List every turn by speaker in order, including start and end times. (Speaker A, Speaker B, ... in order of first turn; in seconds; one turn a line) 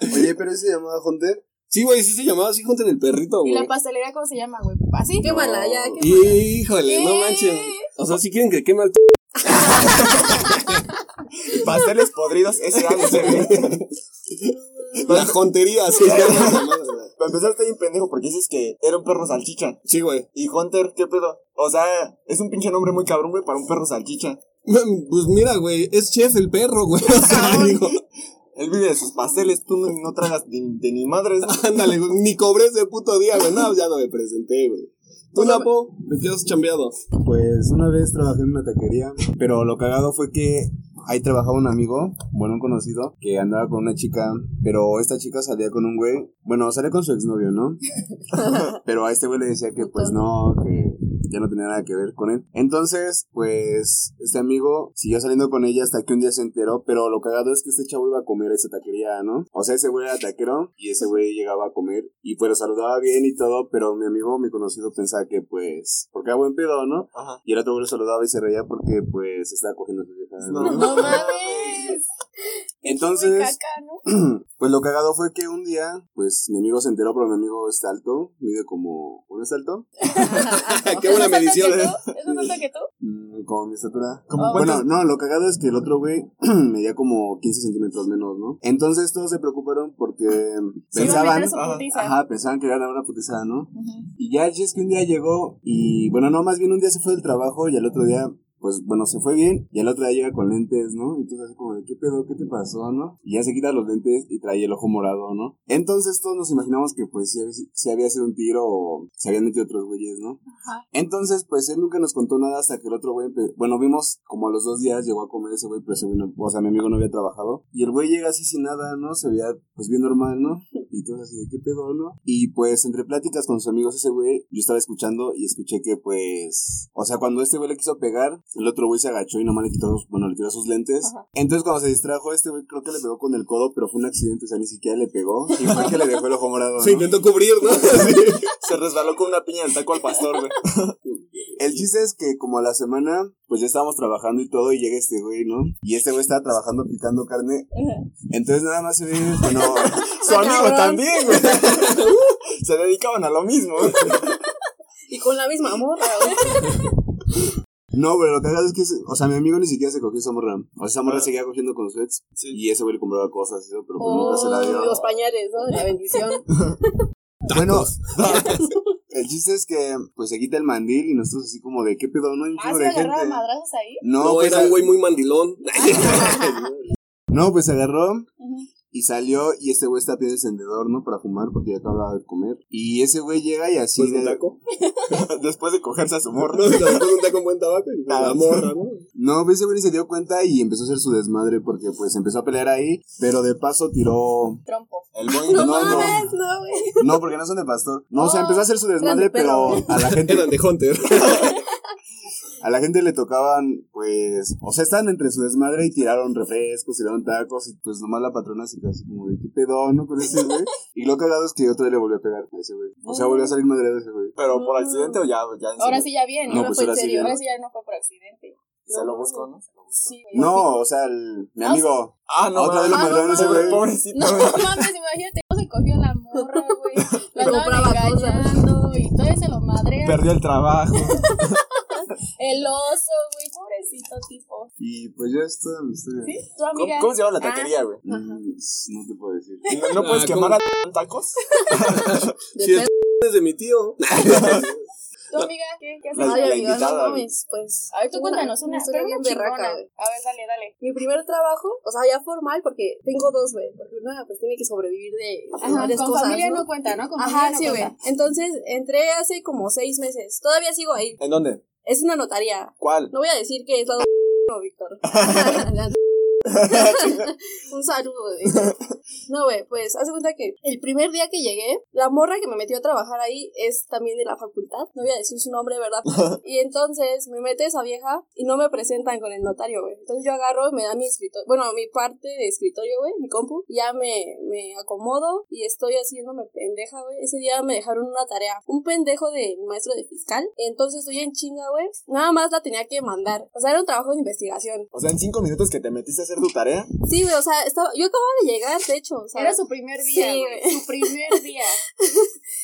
Speaker A: 0.1-1.4
Speaker B: 1.7-3.7
Speaker C: 3.4-5.4
Speaker D: 5.2-6.4
Speaker B: 5.2-10.8
Speaker D: 6.9-7.7
Speaker C: 7.0-7.5
Speaker D: 9.5-10.3
Speaker E: 9.8-10.2
Speaker E: 11.4-13.8
Speaker B: 12.7-17.1
Speaker D: 14.8-15.2
Speaker E: 15.0-15.4
Speaker E: 15.9-19.8
Speaker B: 19.9-20.3
Speaker E: 20.3-24.4
Speaker B: 24.6-28.0
Speaker E: 27.1-28.0
Speaker E: 28.6-31.9
Speaker B: 31.4-37.0
Speaker A: 37.2-47.8
Speaker A: 48.6-71.2
Speaker D: 49.8-50.2
Speaker E: 67.1-67.4
Speaker E: 70.4-72.0
Speaker D: 70.6-72.0
Speaker C: 70.7-72.0
Speaker C: 72.8-74.0
Speaker A: 72.8-73.6
Speaker A: 74.1-79.9
Speaker C: 80.2-82.9
Speaker D: 80.3-81.8
Speaker B: 80.3-82.0
Speaker A: 83.0-110.4
Speaker E: 84.3-84.9
Speaker C: 84.3-84.8
Speaker E: 91.0-91.9
Speaker C: 91.0-92.2
Speaker A: 110.9-137.1
Speaker B: 136.8-138.7
Speaker E: 137.8-141.0
Speaker B: 141.1-141.8
Speaker A: 141.6-147.7
Speaker A: 148.3-150.1
Speaker E: 149.6-154.4
Speaker D: 150.2-152.1
Speaker D: 154.0-154.3
Speaker D: 155.1-156.8
Speaker C: 156.1-156.6
Speaker A: 157.9-165.0
Speaker C: 164.0-165.0
Speaker D: 164.0-166.5
Speaker B: 167.5-168.6
Speaker A: 167.5-168.5
Speaker E: 168.2-168.6
Speaker A: 169.1-173.4
Speaker C: 172.6-174.0
Speaker A: 174.0-174.9
Speaker B: 174.2-176.8
Speaker D: 175.9-176.3
Speaker A: 177.3-178.3
Speaker C: 178.4-178.7
Speaker A: 178.9-184.4
Speaker B: 184.0-184.6
Speaker E: 185.1-187.1
Speaker B: 186.5-189.0
Speaker E: 188.1-188.7
Speaker A: 189.2-194.6
Speaker C: 194.7-195.1
Speaker E: 195.1-196.2
Speaker D: 195.3-197.1
Speaker A: 195.5-196.3
Speaker A: 197.0-200.5
Speaker C: 198.2-198.7
Speaker D: 199.0-200.0
Speaker B: 200.0-201.6
Speaker A: 202.6-214.3
Speaker C: 213.0-213.6
Speaker E: 214.4-216.1
Speaker D: 214.5-215.2
Speaker C: 215.8-219.2
Speaker A: 216.5-217.4
Speaker E: 218.9-220.1
Speaker D: 218.9-219.3
Speaker C: 220.0-220.8
Speaker A: 220.3-223.8
Speaker C: 221.6-221.9
Speaker E: 222.3-224.9
Speaker C: 222.9-230.3
Speaker D: 226.4-226.8
Speaker D: 227.3-228.7
Speaker E: 230.0-231.6
Speaker C: 231.1-234.7
Speaker A: 234.8-236.4
Speaker C: 236.2-238.4
Speaker E: 236.7-238.0
Speaker A: 238.1-239.7
Speaker E: 239.7-242.3
Speaker C: 239.7-239.9
Speaker B: 240.0-240.6
Speaker B: 241.9-244.9
Speaker D: 242.6-242.9
Speaker E: 244.2-244.7
Speaker C: 245.3-246.8
Speaker E: 246.1-247.3
Speaker D: 246.2-249.9
Speaker C: 247.9-250.8
Speaker D: 250.8-261.2
Speaker C: 255.6-257.9
Speaker E: 261.2-261.6
Speaker D: 261.8-268.8
Speaker E: 262.8-263.1
Speaker E: 265.1-265.6
Speaker E: 266.5-267.3
Speaker D: 269.3-294.9
Speaker E: 276.1-276.4
Speaker E: 294.9-296.9
Speaker D: 297.0-301.4
Speaker C: 299.4-301.8
Speaker D: 302.0-302.3